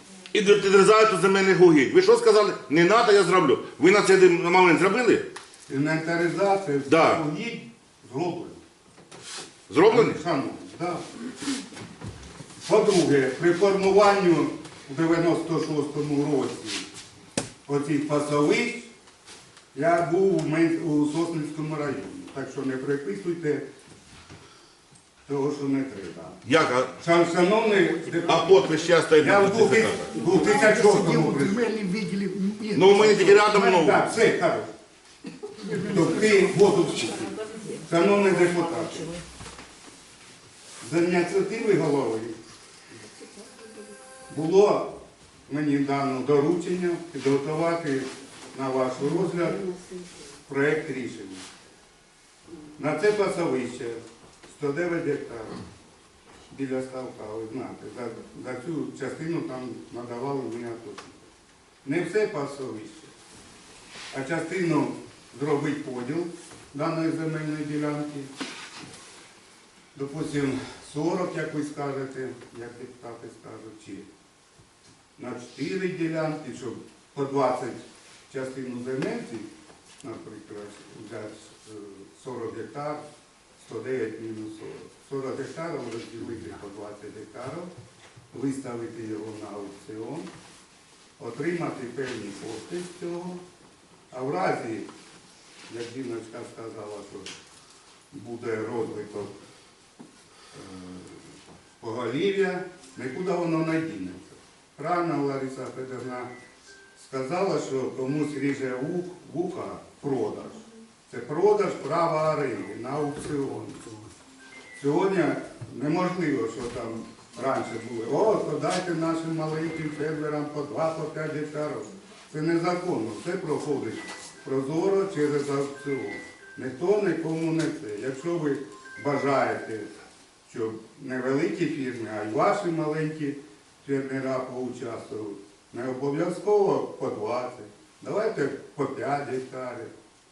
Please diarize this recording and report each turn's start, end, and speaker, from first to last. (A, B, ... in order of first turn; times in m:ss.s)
0:00.3-0:05.3 A
0:05.7-0:08.6 B
0:06.9-0:07.2 A
0:09.7-0:10.2 A
0:09.9-0:11.0 B
0:12.6-0:16.9 B
0:17.7-0:18.9 B
0:19.7-0:23.7 B
0:25.3-0:26.4 B
0:26.5-0:26.9 A
0:27.0-0:28.7 B
0:28.3-0:30.3 A
0:29.2-0:31.7 B
0:30.3-0:32.8 C
0:32.7-0:34.1 A
0:32.9-0:34.7 B
0:35.9-0:39.1 B
0:40.8-0:42.4 B
0:44.3-0:49.6 B
0:50.5-0:51.4 B
0:52.8-0:55.6 B
0:56.5-1:01.2 B
1:01.8-1:03.1 B
1:04.1-1:08.3 B
1:09.9-1:14.1 B
1:15.2-1:19.5 B
1:20.0-1:23.0 B
1:23.6-1:27.7 B
1:28.3-1:30.3 B
1:31.2-1:33.4 B
1:34.1-1:34.9 B
1:35.7-1:37.3 B
1:38.1-1:39.3 B
1:40.5-1:41.3 B
1:41.8-1:46.3 B
1:47.0-1:53.8 B
1:54.8-2:09.9 B
2:10.5-2:19.9 B